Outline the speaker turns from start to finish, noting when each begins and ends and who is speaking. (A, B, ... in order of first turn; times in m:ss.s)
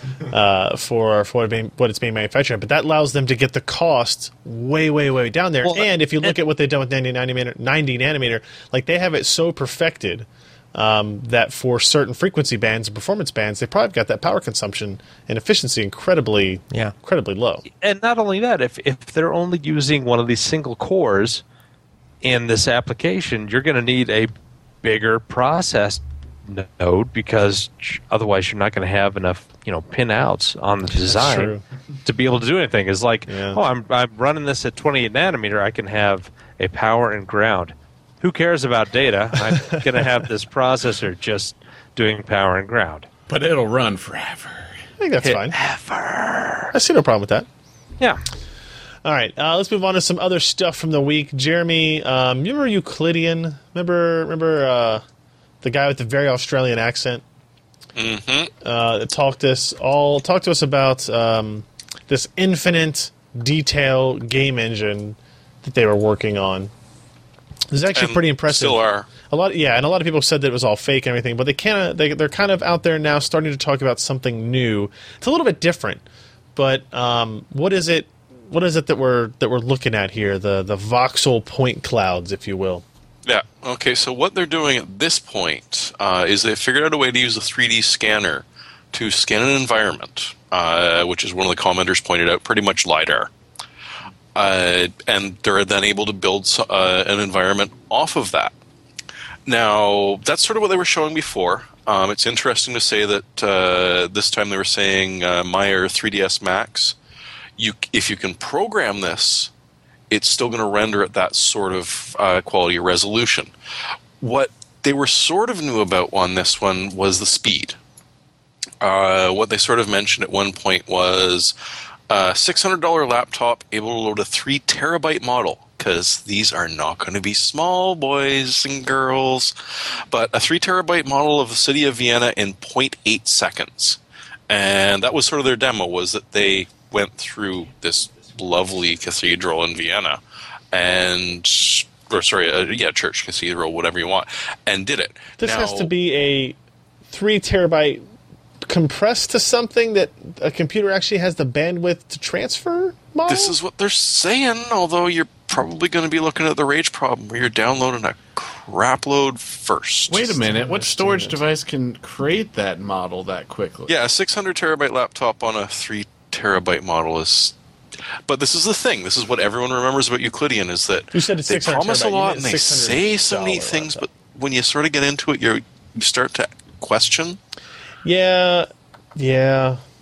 0:00.3-0:17.6 A
0:05.6-0:06.3 B
0:17.8-0:21.4 B
0:22.2-0:24.3 B
0:24.8-0:43.1 B
0:31.1-0:31.6 A
0:33.3-0:33.6 A
0:43.3-0:44.7 C
0:45.0-0:45.6 A
0:45.2-0:46.7 B
0:46.7-0:47.5 A
0:49.0-0:55.0 A
0:55.6-0:57.2 A
0:57.9-0:58.5 D
0:58.6-1:06.7 A
1:07.7-1:16.0 A
1:07.9-1:09.1 D
1:16.6-1:22.8 A
1:23.2-1:33.3 D
1:34.3-1:38.5 D
1:39.4-1:47.0 D
1:47.6-1:49.5 D
1:50.1-1:53.5 D
1:54.2-1:57.8 D
1:58.8-2:01.5 D
2:02.1-2:09.5 D
2:10.1-2:20.2 D
2:20.7-2:25.9 D
2:25.4-2:26.6 A
2:27.1-2:28.0 A
2:28.6-2:33.6 A
2:33.3-2:40.4 D
2:40.1-2:44.0 C
2:40.5-2:41.4 A
2:43.9-2:47.5 D
2:48.3-2:57.4 D
2:51.1-2:54.1 A
2:58.0-2:59.8 A